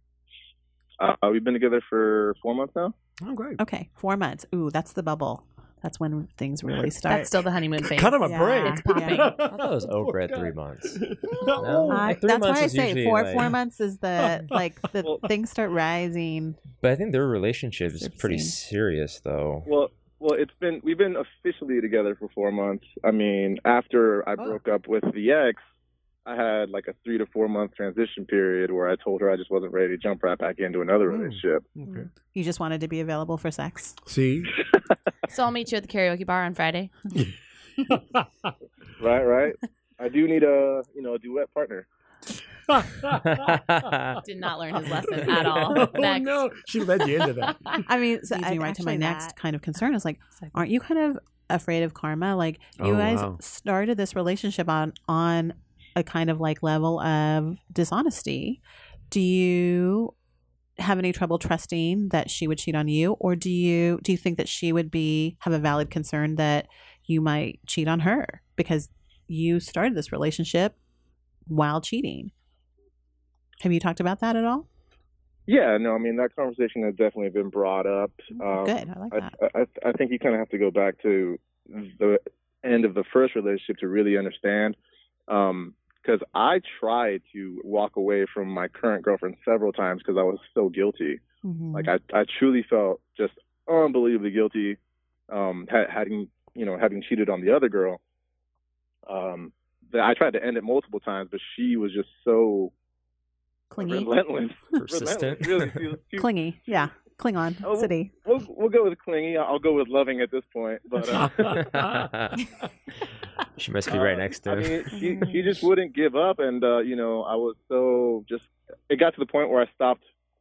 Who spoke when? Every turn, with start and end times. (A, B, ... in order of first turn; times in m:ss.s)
0:01.0-0:02.9 A
0:03.2-0:03.6 B
0:03.6-0:07.3 C
0:07.0-0:09.4 D
0:07.8-0:12.1 B
0:08.2-0:09.4 C
0:09.4-0:11.0 E
0:11.6-0:13.5 E
0:11.9-0:16.6 C
0:14.2-0:14.6 B
0:16.8-0:19.7 E
0:17.9-0:18.6 C
0:19.7-0:25.6 A
0:26.2-0:31.6 A
0:31.1-0:32.1 B
0:31.9-0:34.0 C
0:34.0-0:34.6 B
0:35.3-0:36.9 D
0:37.9-0:38.5 B
0:39.0-0:41.8 A
0:42.7-0:43.6 B
0:43.3-0:44.2 E
0:44.2-0:46.5 D
0:45.0-0:47.9 B
0:47.9-0:58.6 C
0:48.6-0:49.1 D
0:52.8-0:53.4 B
0:59.1-1:00.1 C
1:00.8-1:10.8 C
1:11.5-1:12.3 C
1:13.6-1:14.6 C
1:15.5-1:24.8 A
1:18.3-1:19.3 C
1:25.3-1:31.2 A
1:31.4-1:31.9 C
1:31.7-1:34.8 A
1:35.3-1:38.0 A
1:39.1-1:42.7 A
1:43.7-1:44.1 C
1:43.8-1:46.3 A
1:44.8-1:45.8 E
1:46.2-1:48.1 C
1:47.6-1:51.4 A
1:51.0-1:52.1 B
1:51.4-1:52.4 E
1:53.6-1:55.3 E
1:53.9-2:00.0 A